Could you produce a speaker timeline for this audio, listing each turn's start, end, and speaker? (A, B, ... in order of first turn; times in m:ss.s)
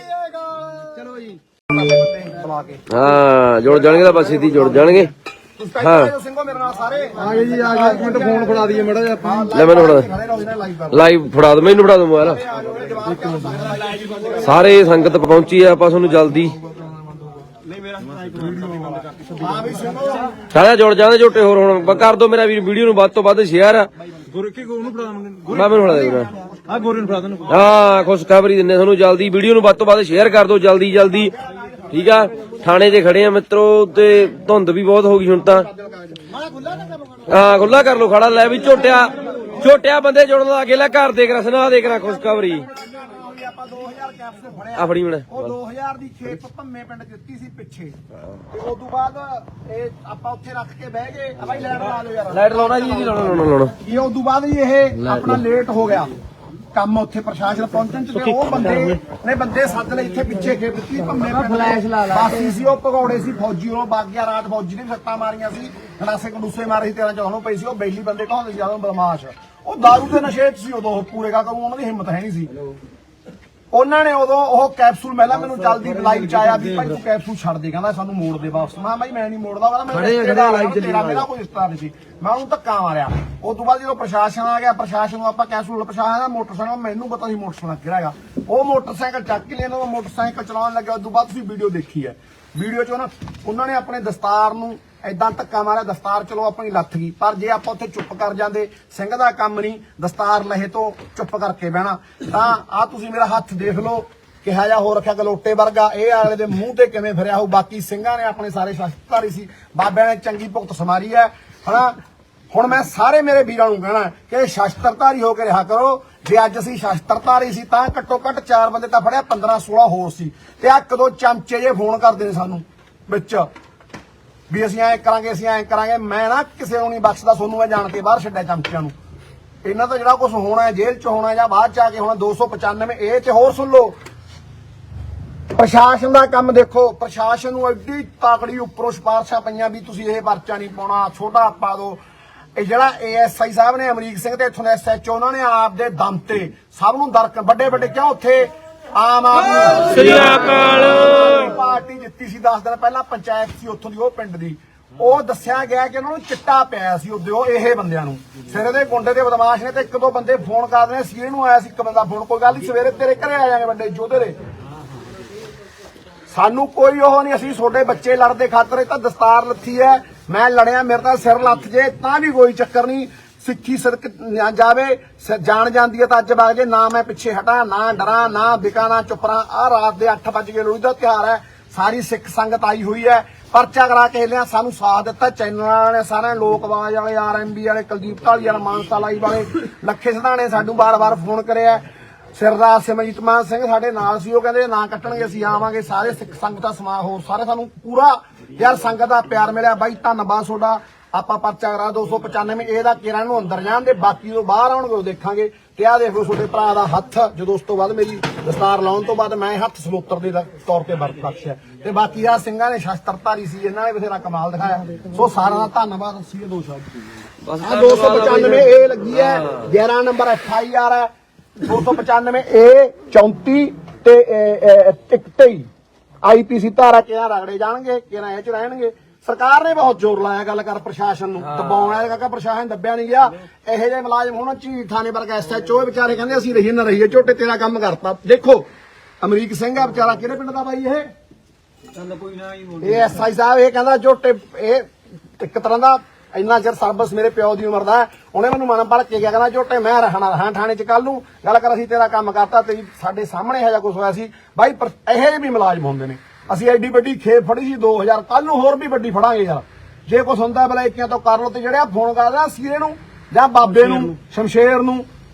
0:01.0-0:02.8 A
0:02.9-0:05.1 B
0:04.0-0:04.8 A
0:05.6-0:11.0 A
0:05.8-0:06.1 B
0:07.3-0:09.4 C
0:09.5-0:10.1 B
0:10.9-0:12.4 B
0:12.2-0:14.5 A
0:14.4-0:16.6 B
0:19.4-0:20.4 A
0:20.5-0:23.9 B
0:24.3-0:25.5 C
0:25.5-0:26.3 B
0:25.6-0:26.8 A
0:26.8-0:27.4 C
0:27.5-0:31.3 B
0:31.9-0:35.7 B
0:35.5-0:36.4 A
0:36.5-0:37.0 C
0:37.3-0:42.7 B
0:42.4-0:48.0 A
0:44.8-0:45.5 B
0:48.5-0:56.1 A
0:52.3-0:53.8 B
0:56.7-1:12.5 A
1:13.7-1:52.0 A
1:52.5-2:03.5 A
2:04.5-2:08.9 A
2:09.6-2:14.0 A
2:15.6-2:22.0 A
2:22.6-2:44.4 A
2:46.3-3:11.8 A
3:12.4-3:37.0 A
3:37.4-3:39.6 B
3:37.6-3:45.7 A
3:46.2-3:58.7 A
3:51.4-3:52.0 B
3:59.2-4:01.1 A
4:02.0-4:03.0 C
4:02.8-4:04.9 A
4:05.4-4:25.1 A